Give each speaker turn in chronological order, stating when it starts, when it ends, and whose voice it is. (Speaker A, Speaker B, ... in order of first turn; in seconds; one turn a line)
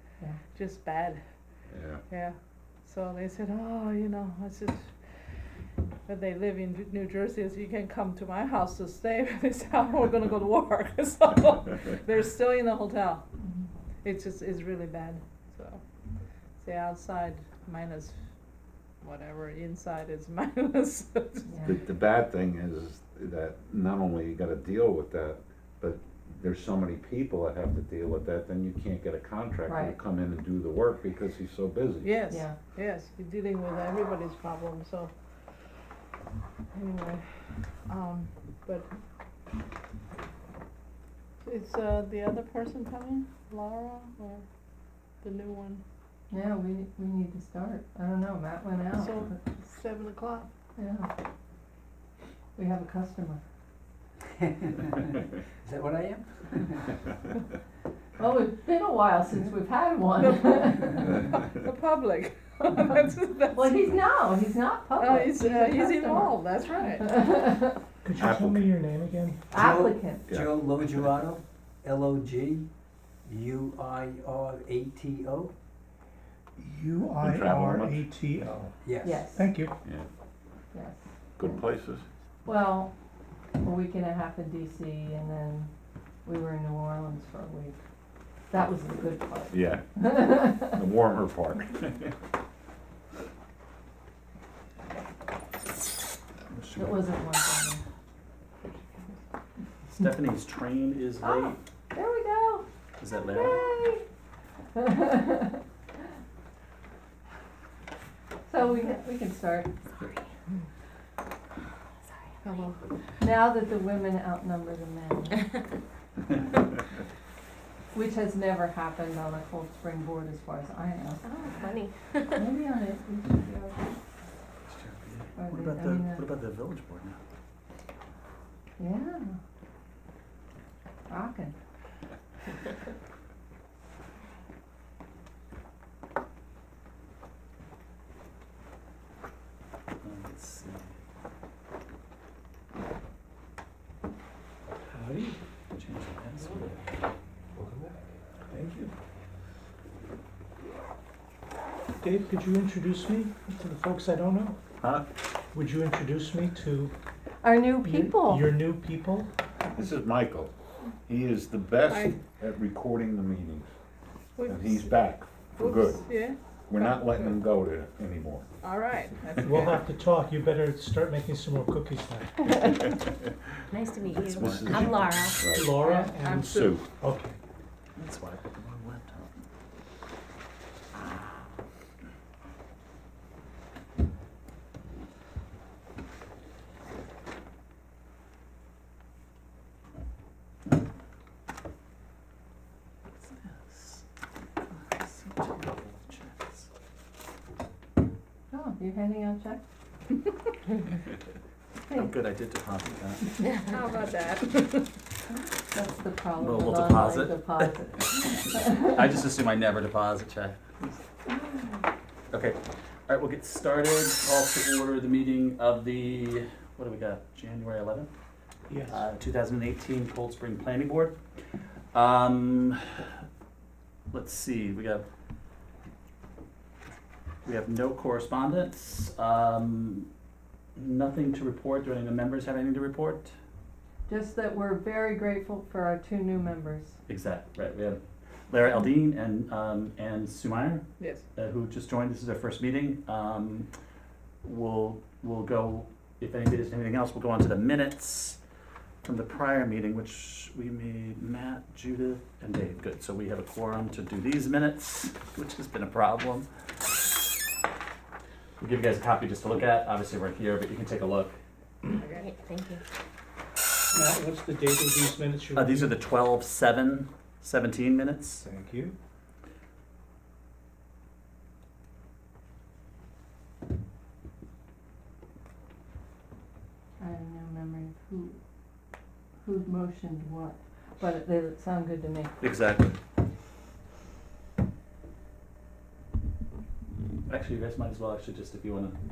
Speaker A: 0.5-1.2
Speaker B: 1.7-2.0
Speaker A: 2.1-2.4
Speaker A: 2.9-4.9
Speaker A: 6.1-13.2
Speaker A: 14.0-15.8
Speaker A: 16.6-18.2
Speaker A: 19.0-21.5
Speaker C: 21.5-21.8
Speaker B: 21.6-32.1
Speaker C: 29.7-30.0
Speaker A: 32.0-35.1
Speaker C: 32.3-32.6
Speaker A: 36.7-38.9
Speaker A: 41.4-44.4
Speaker A: 45.2-45.8
Speaker C: 46.3-49.4
Speaker A: 49.0-50.5
Speaker C: 50.8-51.1
Speaker C: 52.6-53.4
Speaker D: 54.4-56.9
Speaker C: 58.2-61.3
Speaker A: 60.2-63.9
Speaker C: 63.5-67.8
Speaker A: 65.0-67.2
Speaker E: 68.0-69.4
Speaker B: 68.2-68.7
Speaker C: 69.5-70.3
Speaker D: 69.5-72.7
Speaker B: 70.3-70.9
Speaker D: 73.2-75.5
Speaker E: 76.6-79.7
Speaker B: 77.2-78.0
Speaker D: 78.8-79.2
Speaker C: 79.0-79.5
Speaker C: 80.7-81.6
Speaker B: 81.4-82.0
Speaker C: 82.5-82.9
Speaker C: 83.6-85.7
Speaker C: 86.2-87.8
Speaker C: 88.5-90.8
Speaker B: 89.5-92.1
Speaker F: 96.6-96.9
Speaker C: 96.7-97.8
Speaker F: 99.9-101.6
Speaker C: 101.2-102.7
Speaker F: 103.0-103.7
Speaker C: 103.2-104.0
Speaker C: 104.7-105.6
Speaker C: 108.5-110.2
Speaker G: 112.1-112.7
Speaker A: 112.4-112.8
Speaker C: 113.2-115.5
Speaker C: 117.9-121.3
Speaker G: 121.2-122.4
Speaker C: 122.3-124.0
Speaker F: 124.7-127.2
Speaker C: 125.4-126.3
Speaker C: 128.8-129.4
Speaker C: 131.1-131.6
Speaker F: 140.0-140.9
Speaker E: 144.9-145.4
Speaker F: 145.8-146.8
Speaker E: 148.5-148.9
Speaker E: 152.0-154.6
Speaker B: 154.8-155.1
Speaker E: 155.5-156.9
Speaker C: 157.4-158.5
Speaker E: 157.8-159.3
Speaker B: 159.7-160.5
Speaker B: 161.1-163.7
Speaker A: 161.9-162.2
Speaker A: 164.4-165.0
Speaker B: 164.4-166.0
Speaker A: 165.6-166.4
Speaker B: 166.7-168.4
Speaker A: 168.6-169.8
Speaker E: 169.4-172.4
Speaker G: 173.7-175.5
Speaker B: 174.1-175.8
Speaker E: 175.5-177.4
Speaker A: 175.8-176.7
Speaker B: 176.4-176.8
Speaker F: 178.0-179.3
Speaker F: 193.2-194.0
Speaker F: 194.7-196.7
Speaker C: 198.5-199.6
Speaker F: 201.9-203.4
Speaker G: 203.4-203.8
Speaker A: 203.7-204.9
Speaker C: 205.3-209.0
Speaker F: 206.4-207.7
Speaker F: 208.3-211.0
Speaker C: 211.3-211.8
Speaker F: 212.3-218.1
Speaker E: 218.7-219.0
Speaker F: 218.9-221.2
Speaker F: 221.9-223.1
Speaker F: 224.1-225.0
Speaker F: 227.4-230.1
Speaker F: 230.8-233.3
Speaker C: 234.1-237.0
Speaker F: 237.1-238.0
Speaker F: 238.5-240.8
Speaker A: 241.0-241.2
Speaker F: 241.4-243.7
Speaker F: 244.4-248.4
Speaker F: 249.0-256.5
Speaker F: 258.6-261.4
Speaker A: 262.0-262.3
Speaker G: 262.1-262.8
Speaker E: 263.9-266.0
Speaker F: 265.6-268.4
Speaker E: 268.4-268.9
Speaker C: 277.0-278.4
Speaker C: 279.4-282.4
Speaker F: 282.4-282.9
Speaker F: 287.3-289.0